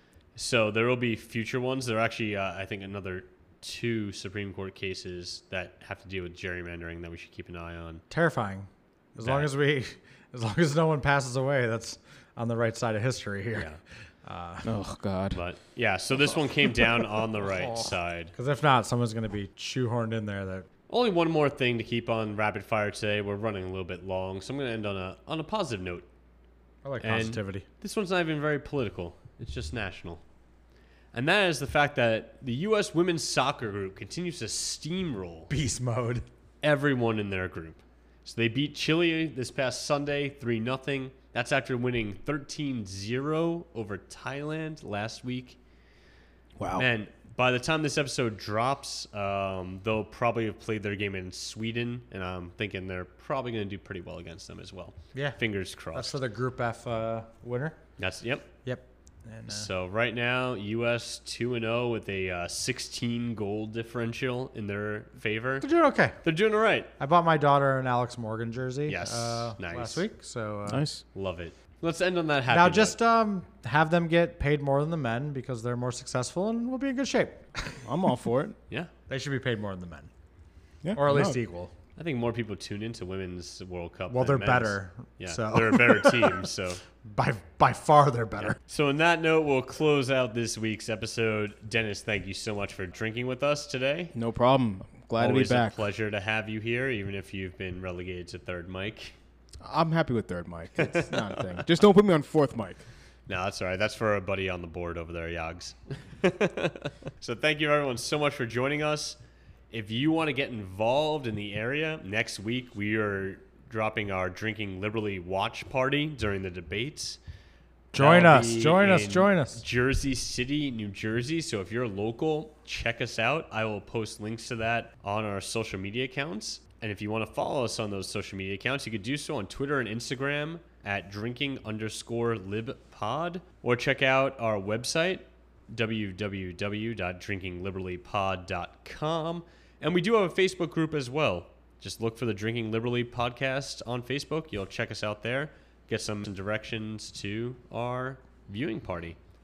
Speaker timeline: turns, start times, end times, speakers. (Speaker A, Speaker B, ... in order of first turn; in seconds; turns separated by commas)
Speaker A: 0.3-8.0, Speaker B: 8.1-13.7, Speaker A: 9.2-9.5, Speaker B: 14.3-14.7, Speaker C: 14.6-15.4, Speaker A: 15.3-18.3, Speaker B: 18.4-20.7, Speaker A: 20.9-26.1, Speaker B: 26.8-27.6, Speaker A: 27.0-30.2, Speaker A: 31.1-35.5, Speaker B: 35.5-36.2, Speaker A: 36.6-45.6, Speaker C: 46.6-46.9, Speaker A: 46.8-56.2, Speaker B: 55.1-55.4, Speaker B: 55.9-57.8, Speaker A: 58.0-58.5, Speaker B: 58.6-59.7, Speaker A: 59.5-65.7, Speaker B: 65.6-66.2, Speaker A: 66.2-66.9, Speaker B: 67.0-70.8, Speaker A: 68.9-70.0, Speaker C: 70.7-71.0, Speaker A: 71.1-73.0, Speaker B: 72.5-77.9, Speaker C: 77.8-78.6, Speaker B: 79.1-80.1, Speaker C: 80.8-81.4, Speaker B: 81.0-81.7, Speaker A: 82.0-86.8, Speaker B: 84.1-86.5, Speaker B: 87.0-88.6, Speaker A: 88.5-94.2, Speaker C: 94.1-95.8, Speaker A: 95.2-99.2, Speaker C: 99.6-102.8, Speaker A: 100.8-101.4, Speaker A: 103.3-109.2, Speaker A: 109.7-117.2, Speaker B: 117.9-119.6, Speaker A: 118.0-149.2